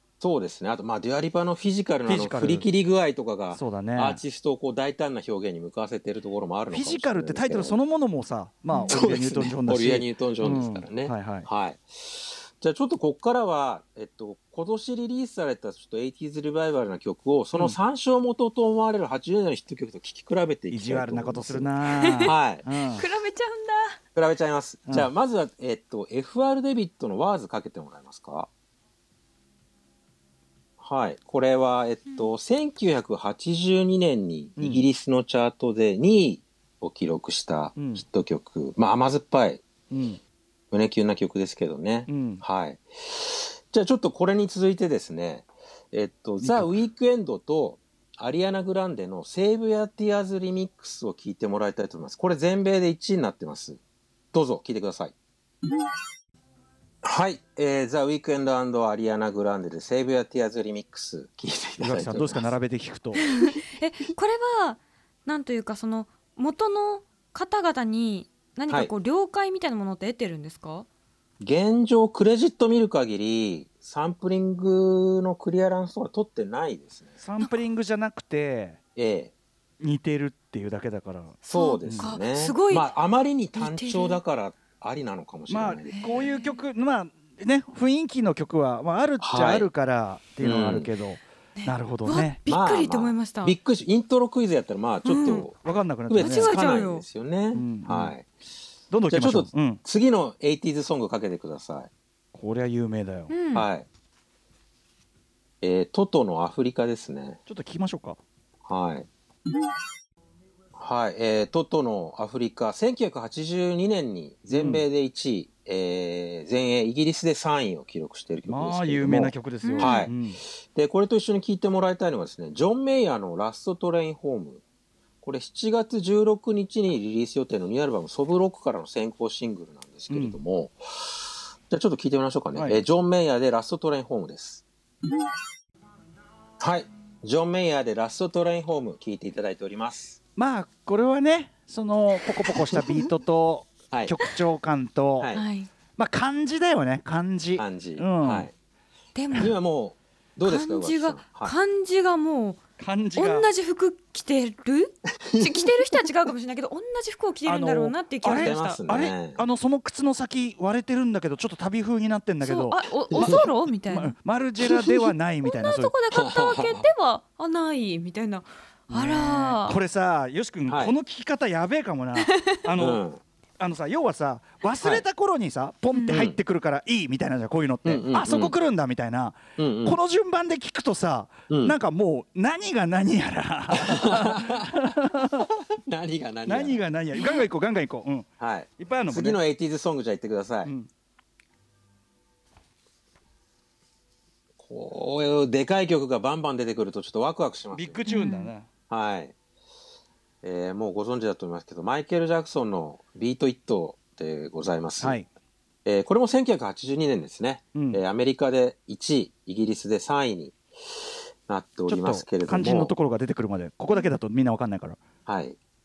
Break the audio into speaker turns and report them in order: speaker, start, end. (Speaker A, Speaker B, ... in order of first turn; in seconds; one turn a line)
Speaker A: 0.2-7.8
Speaker B: 2.0-2.6
Speaker B: 3.5-4.2
Speaker B: 6.7-11.5
Speaker A: 8.8-22.6
Speaker B: 20.7-23.0
Speaker C: 22.8-24.0
Speaker A: 24.1-28.5
Speaker A: 30.8-39.6
Speaker B: 34.6-34.8
Speaker B: 37.8-38.0
Speaker B: 39.9-40.2
Speaker A: 40.7-53.8
Speaker B: 42.1-42.4
Speaker B: 46.4-46.8
Speaker A: 54.3-55.1
Speaker A: 57.0-62.5
Speaker B: 61.8-63.2
Speaker C: 63.2-70.9
Speaker A: 71.4-77.2
Speaker B: 77.2-78.8
Speaker C: 77.4-77.7
Speaker A: 79.0-79.3
Speaker B: 79.8-82.1
Speaker C: 81.4-82.9
Speaker A: 81.5-86.3
Speaker C: 83.5-84.2
Speaker B: 85.5-92.4
Speaker C: 85.9-86.6
Speaker A: 89.2-89.7
Speaker A: 90.4-90.9
Speaker C: 91.6-93.5
Speaker A: 92.5-95.5
Speaker C: 95.0-95.5
Speaker B: 95.6-96.6
Speaker A: 96.1-98.3
Speaker C: 96.2-97.7
Speaker B: 97.5-98.1
Speaker B: 98.9-99.8
Speaker A: 99.1-101.9
Speaker B: 102.3-103.3
Speaker C: 103.3-103.7
Speaker A: 103.5-103.9
Speaker A: 105.6-107.4
Speaker B: 107.5-108.2
Speaker A: 108.7-109.1
Speaker A: 110.7-120.1
Speaker B: 114.5-114.8
Speaker B: 118.5-120.4
Speaker C: 119.6-120.1
Speaker A: 120.7-124.6
Speaker A: 125.2-134.6
Speaker B: 130.1-130.4
Speaker B: 132.5-132.8
Speaker A: 136.6-140.2
Speaker B: 140.3-145.3
Speaker A: 143.9-144.2
Speaker A: 145.2-145.4
Speaker C: 145.3-145.7
Speaker B: 146.0-148.5
Speaker A: 147.6-148.5
Speaker C: 149.1-149.5
Speaker A: 149.4-151.5
Speaker C: 150.4-152.6
Speaker B: 152.8-153.5
Speaker C: 153.1-158.8
Speaker B: 157.4-165.9
Speaker A: 158.2-159.4
Speaker C: 162.4-164.1
Speaker A: 163.1-163.5
Speaker C: 165.4-169.8
Speaker A: 166.1-166.8
Speaker B: 168.9-173.0
Speaker A: 170.7-170.9
Speaker C: 172.2-172.5
Speaker A: 172.8-173.2
Speaker B: 173.6-185.5
Speaker C: 175.9-176.2
Speaker A: 176.1-176.4
Speaker A: 177.8-178.5
Speaker A: 179.6-180.0
Speaker A: 181.5-181.8
Speaker A: 183.8-184.8
Speaker A: 185.8-186.8
Speaker B: 186.4-189.4
Speaker C: 187.2-187.4
Speaker A: 188.4-190.7
Speaker B: 190.6-190.9
Speaker A: 194.6-198.0
Speaker B: 197.7-198.7
Speaker C: 198.1-198.5
Speaker A: 198.9-199.3
Speaker A: 200.4-205.2
Speaker B: 205.0-205.3
Speaker A: 205.8-210.6
Speaker B: 207.7-208.0
Speaker A: 211.5-212.9
Speaker B: 211.9-215.0
Speaker A: 215.2-215.6